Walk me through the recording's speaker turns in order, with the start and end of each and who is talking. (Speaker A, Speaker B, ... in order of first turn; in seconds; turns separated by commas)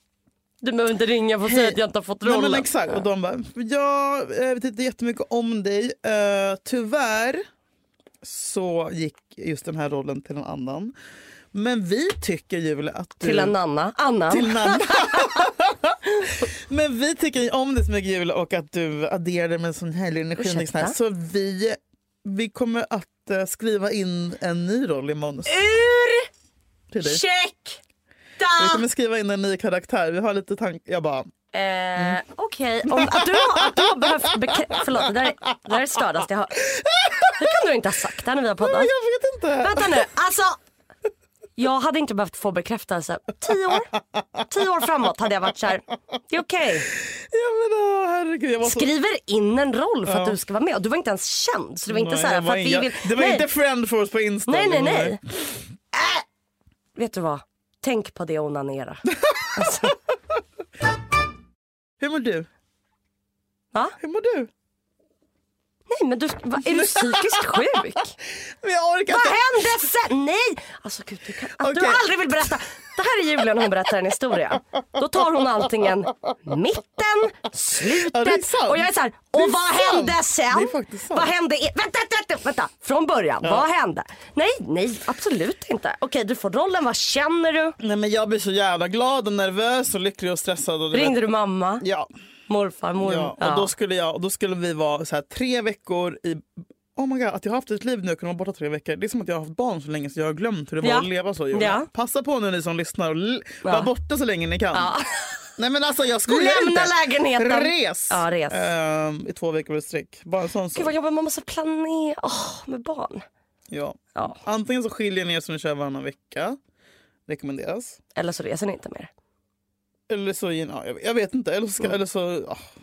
Speaker A: 0.6-3.0, Speaker B: 1.4-7.4, Speaker B: 8.2-10.9, Speaker B: 11.5-13.5, Speaker A: 13.2-15.4, Speaker B: 14.3-25.5, Speaker A: 20.4-20.9, Speaker A: 25.5-26.3, Speaker B: 26.9-27.2, Speaker A: 27.0-27.8, Speaker A: 28.4-28.8, Speaker B: 28.6-31.3, Speaker A: 31.5-36.6, Speaker B: 32.9-33.9, Speaker B: 34.5-35.3, Speaker B: 36.6-37.6, Speaker A: 37.3-38.9, Speaker B: 38.6-40.1, Speaker A: 39.6-40.6, Speaker A: 41.6-43.9, Speaker A: 44.5-46.9, Speaker B: 46.9-48.9, Speaker A: 48.6-53.5, Speaker B: 50.0-50.4, Speaker B: 51.9-55.2, Speaker A: 54.5-55.2, Speaker A: 57.0-60.0, Speaker B: 59.2-59.9, Speaker B: 62.0-62.5, Speaker B: 64.0-64.5, Speaker A: 65.9-68.1, Speaker B: 66.6-67.8, Speaker B: 68.6-69.6, Speaker A: 69.1-87.8, Speaker B: 71.6-72.3, Speaker B: 77.8-81.3, Speaker B: 87.8-91.2, Speaker A: 90.9-91.8, Speaker B: 91.8-92.1, Speaker A: 92.5-93.7, Speaker B: 93.0-104.9, Speaker A: 100.8-101.9, Speaker A: 103.6-103.9, Speaker A: 104.7-105.4, Speaker B: 105.6-110.9, Speaker A: 106.3-108.7, Speaker A: 110.7-113.2, Speaker B: 113.7-116.6, Speaker B: 117.3-118.0, Speaker A: 118.1-119.1, Speaker B: 120.1-122.7